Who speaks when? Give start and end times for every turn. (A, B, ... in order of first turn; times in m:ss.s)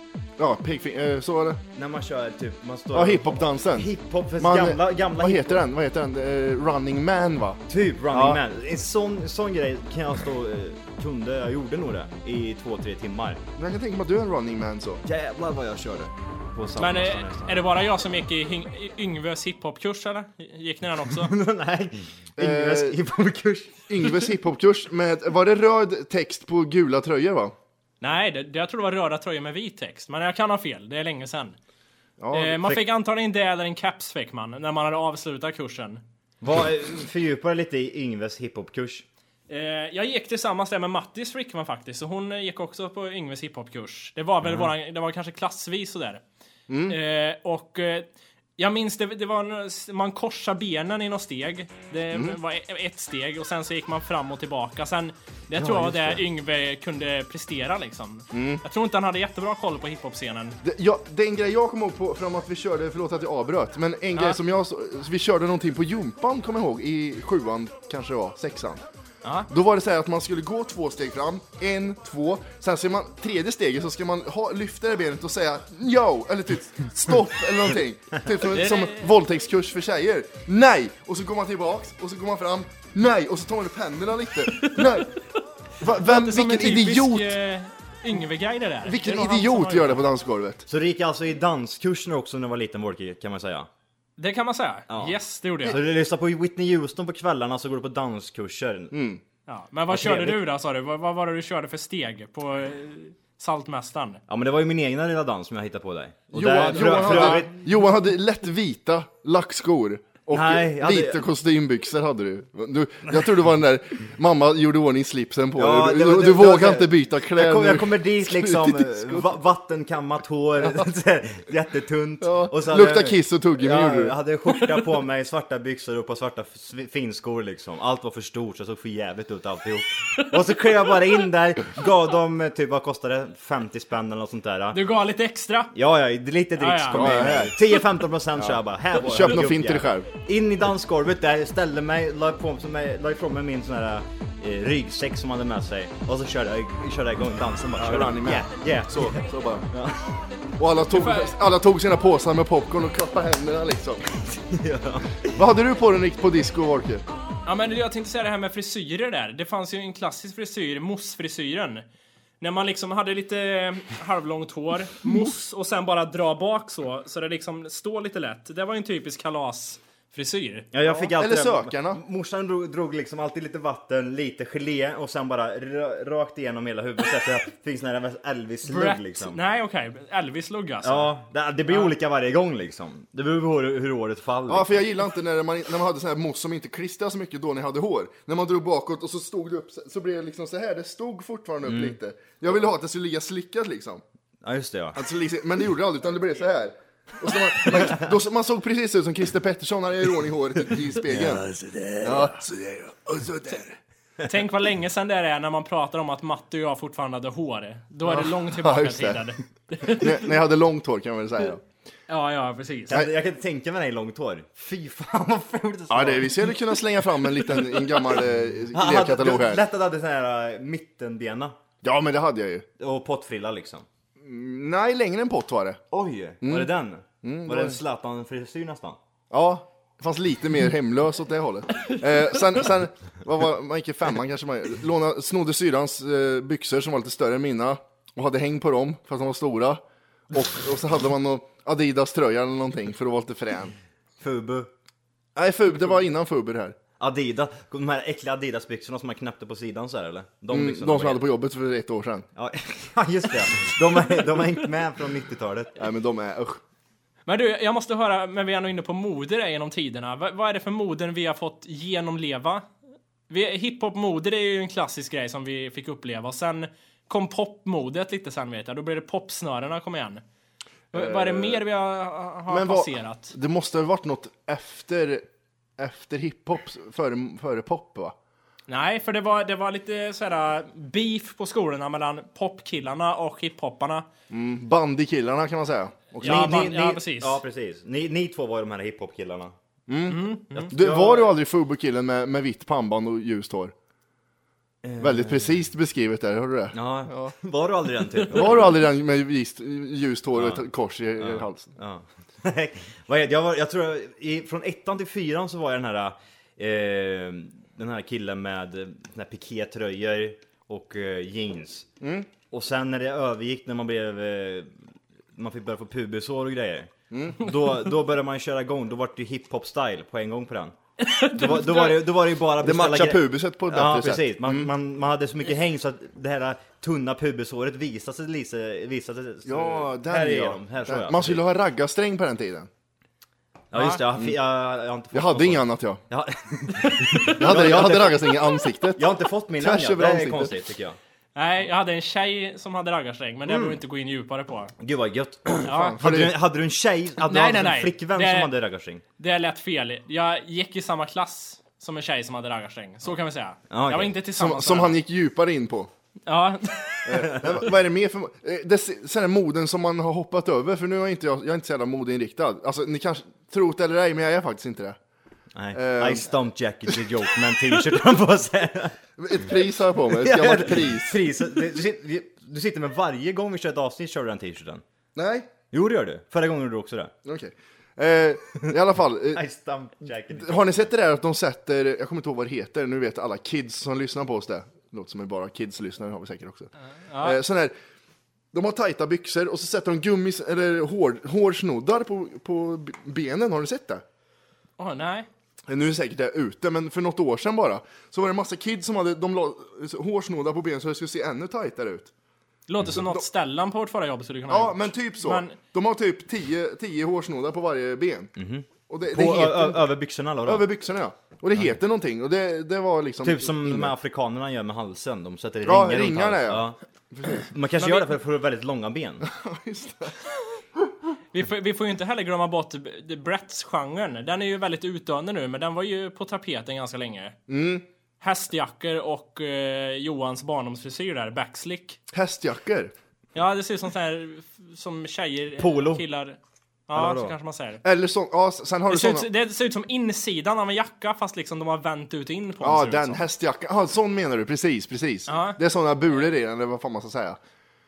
0:00.4-0:01.6 A
0:01.8-0:05.6 B
0:02.9-0:08.4 A
0:07.7-0:13.4 B
0:13.6-0:15.0 A
0:15.0-0:17.6 B
0:16.8-0:21.3 C
0:21.1-0:24.2 B
0:22.4-0:23.0 A
0:23.9-0:27.5 A
0:28.0-0:31.6 C
0:32.2-0:32.8 A
0:32.3-0:36.0 C
0:36.4-0:39.0 B
0:39.5-0:46.2 C
0:44.4-0:44.7 B
0:46.7-0:47.0 A
0:46.9-0:48.1 C
0:48.6-1:00.6 C
0:52.1-0:52.4 A
0:55.6-0:56.2 A
0:58.3-0:58.6 A
1:00.6-1:08.8 A
1:09.2-1:09.5 C
1:09.5-1:25.1 A
1:18.4-1:19.1 C
1:24.6-1:24.9 C
1:25.8-1:27.4 A
1:25.8-1:30.0 C
1:28.8-1:30.6 A
1:30.7-1:33.7 B
1:34.2-1:35.8 C
1:34.9-1:39.0 B
1:38.9-1:39.2 A
1:39.5-1:44.2 C
1:39.9-1:40.4 B
1:44.3-1:47.5 B
1:46.3-1:59.3 A
1:46.7-1:47.4 C
1:50.3-1:51.2 B
1:55.6-2:14.8 B
2:00.6-2:00.9 A
2:02.2-2:04.1 A
2:14.7-2:15.7 C
2:15.7-2:30.2 B
2:16.6-2:17.4 C
2:16.9-2:17.5 A
2:18.4-2:20.1 A
2:27.8-2:29.7 A
2:30.6-2:34.0 A
2:30.9-2:31.3 C
2:34.3-2:35.4 B
2:35.3-2:37.0 A
2:37.4-2:41.8 C
2:42.4-2:51.0 C
2:50.7-2:59.4 B
2:51.1-2:52.0 A
2:58.6-3:01.1 C
3:00.8-3:04.8 B
3:04.5-3:14.0 A
3:11.6-3:12.0 B
3:14.4-3:15.0 B
3:14.9-3:21.5 A
3:21.0-3:22.4 B
3:22.0-3:23.8 A
3:24.2-3:30.2 C
3:28.0-3:29.3 A
3:29.8-3:31.6 A
3:32.1-3:33.0 C
3:32.9-3:36.6 B
3:35.9-3:39.6 A
3:38.7-3:41.5 B
3:41.8-3:42.7 A
3:42.8-3:43.8 B
3:44.2-3:45.8 A
3:45.9-3:49.0 B
3:46.4-3:46.7 A
3:47.2-3:47.8 A
3:49.3-4:03.8 A
4:04.2-4:04.7 B
4:05.3-4:06.8 A
4:07.0-4:11.2 B
4:10.5-4:12.3 A
4:12.4-4:15.8 B
4:15.8-4:16.6 A
4:17.3-4:22.7 C
4:23.3-4:30.2 C
4:30.9-4:33.3 C
4:30.9-4:31.6 A
4:32.5-4:35.2 A
4:35.8-4:38.1 A
4:38.7-4:44.1 C
4:44.3-4:46.6 A
4:46.2-4:47.4 C
4:46.2-4:49.5 B
4:49.9-4:53.7 A
4:50.1-4:50.7 C
4:50.5-4:51.3 B
4:54.8-4:55.6 B
4:55.0-4:57.3 A
4:56.7-4:58.8 B
4:58.3-5:01.7 A
5:00.3-5:00.6 B
5:01.2-5:11.9 B
5:12.0-5:12.3 A
5:12.5-5:14.7 B
5:15.3-5:20.7 B
5:17.1-5:17.4 A
5:21.0-5:22.0 C
5:21.2-5:31.4 B
5:22.6-5:24.7 A
5:29.4-5:32.7 A
5:33.7-5:41.0 B
5:33.7-5:34.0 C
5:35.1-5:36.0 A
5:36.8-5:37.4 C
5:37.3-5:40.5 A
5:41.4-5:44.7 C
5:43.5-5:43.8 B
5:44.8-5:49.0 B
5:45.6-5:46.4 A
5:45.6-5:46.0 C
5:47.3-5:48.5 C
5:49.2-5:55.0 C
5:53.7-5:54.2 B
5:54.3-5:55.9 A
5:56.3-5:57.3 C
5:57.0-6:05.0 A
6:05.5-6:09.0 B
6:05.7-6:06.3 A
6:09.2-6:11.2 A
6:10.1-6:14.8 B
6:15.1-6:15.5 A
6:15.7-6:17.1 B
6:17.2-6:19.4 A
6:19.3-6:20.9 B
6:20.3-6:26.7 A
6:27.0-6:27.4 C
6:27.2-6:27.7 A
6:28.5-6:34.0 A
6:34.8-6:35.3 C
6:35.7-6:42.1 A
6:42.7-6:45.6 C
6:42.9-6:43.2 A
6:44.5-6:48.3 A
6:48.4-6:50.7 B
6:48.9-6:49.9 A
6:50.4-6:53.9 A
6:53.2-6:56.8 B
6:55.6-6:57.5 A
6:57.4-6:59.3 B
6:57.8-6:58.1 C
6:59.2-7:00.2 A
7:01.3-7:07.4 C
7:07.5-7:07.8 A
7:08.2-7:12.0 C
7:12.1-7:12.9 A
7:13.3-7:16.4 C
7:15.6-7:16.0 B
7:16.9-7:17.8 C
7:16.9-7:17.3 B
7:17.8-7:19.3 A
7:18.9-7:23.2 C
7:22.6-7:27.4 A
7:25.3-7:25.6 C